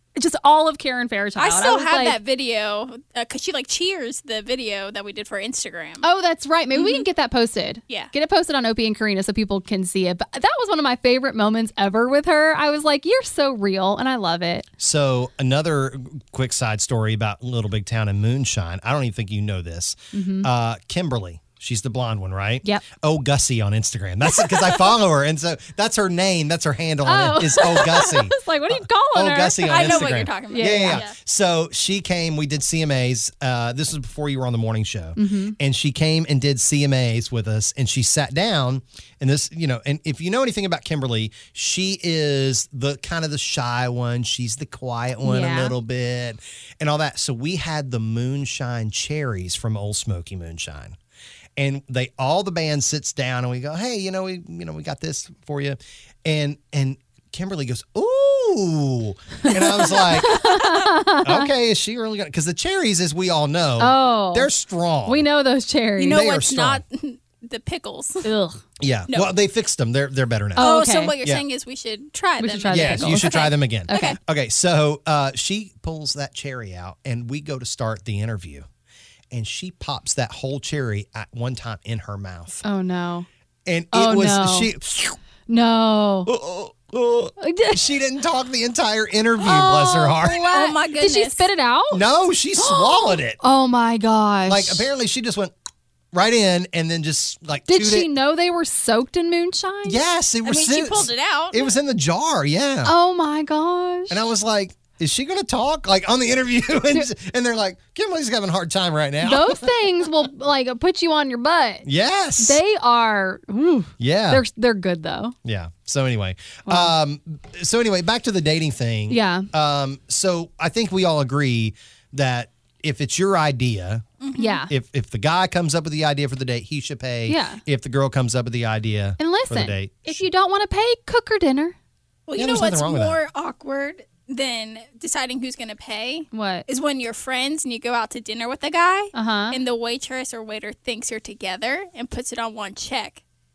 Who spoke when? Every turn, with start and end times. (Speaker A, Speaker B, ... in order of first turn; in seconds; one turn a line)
Speaker A: 0.1-2.2
Speaker B: 1.4-6.0
Speaker A: 6.0-14.7
Speaker B: 6.7-7.0
Speaker C: 14.8-51.0
Speaker A: 20.1-20.5
Speaker A: 27.0-31.0
Speaker B: 29.6-31.1
Speaker A: 35.2-35.6
Speaker A: 45.2-45.7
Speaker C: 51.6-60.4
Speaker A: 59.5-61.5
Speaker C: 61.2-65.2
Speaker A: 63.8-64.5
Speaker A: 65.0-66.2
Speaker B: 66.0-68.3
Speaker C: 66.1-66.8
Speaker A: 68.2-68.6
Speaker C: 68.8-71.4
Speaker A: 70.5-71.1
Speaker B: 70.6-74.2
Speaker A: 72.4-74.2
Speaker C: 72.7-78.7
Speaker C: 79.3-82.6
Speaker A: 82.6-83.3
Speaker C: 83.7-85.2
Speaker A: 83.9-84.7
Speaker A: 85.5-86.3
Speaker C: 86.2-90.5
Speaker A: 87.4-87.8
Speaker A: 89.4-92.0
Speaker B: 90.2-91.5
Speaker C: 91.9-93.4
Speaker A: 92.6-94.9
Speaker C: 94.5-95.5
Speaker C: 96.1-98.1
Speaker A: 97.7-100.0
Speaker C: 99.8-102.9
Speaker B: 100.4-101.7
Speaker A: 102.8-104.2
Speaker C: 104.1-109.7
Speaker A: 109.2-111.8
Speaker C: 111.8-112.6
Speaker A: 112.4-115.3
Speaker C: 114.0-114.4
Speaker C: 115.4-124.0
Speaker A: 116.7-116.9
Speaker A: 119.1-119.5
Speaker B: 124.2-124.6
Speaker A: 124.3-124.7
Speaker C: 124.7-130.2
Speaker A: 127.3-127.6
Speaker A: 129.2-131.8
Speaker B: 132.3-143.2
Speaker C: 132.3-133.2
Speaker A: 136.3-136.6
Speaker A: 139.1-139.6